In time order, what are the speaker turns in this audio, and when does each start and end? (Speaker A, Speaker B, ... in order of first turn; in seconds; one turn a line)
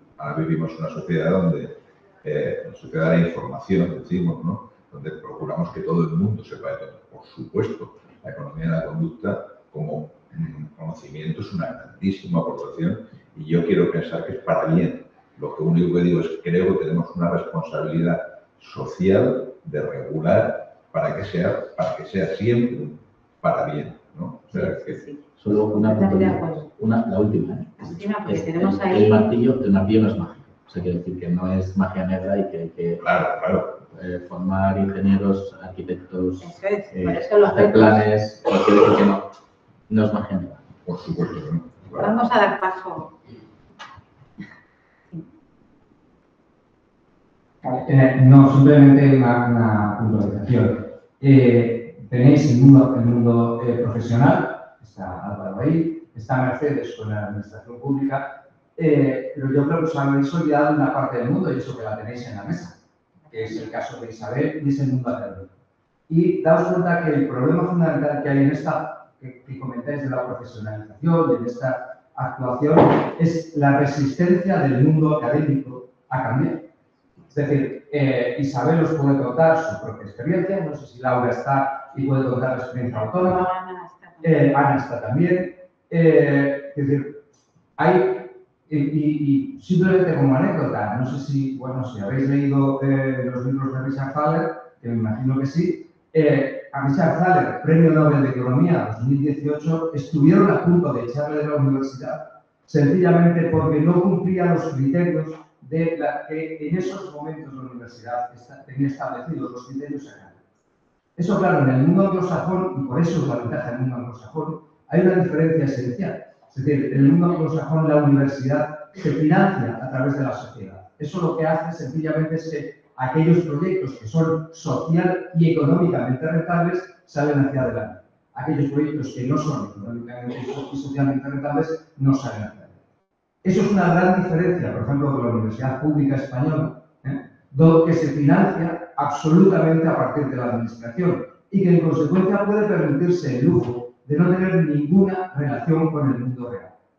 Speaker A: 0.2-25.0
Speaker B: 24.5-26.7
Speaker C: 25.4-33.1
Speaker B: 27.8-29.3
Speaker A: 33.0-33.8
Speaker C: 33.8-39.3
Speaker B: 36.4-38.0
Speaker C: 39.9-40.7
Speaker A: 40.8-42.1
Speaker B: 42.0-43.2
Speaker D: 47.6-62.8
Speaker B: 63.2-63.7
Speaker D: 63.3-65.5
Speaker D: 66.1-76.7
Speaker D: 77.3-83.5
Speaker B: 83.1-84.5
Speaker D: 84.2-87.2
Speaker D: 87.8-110.4
Speaker D: 111.2-132.8
Speaker D: 133.4-146.7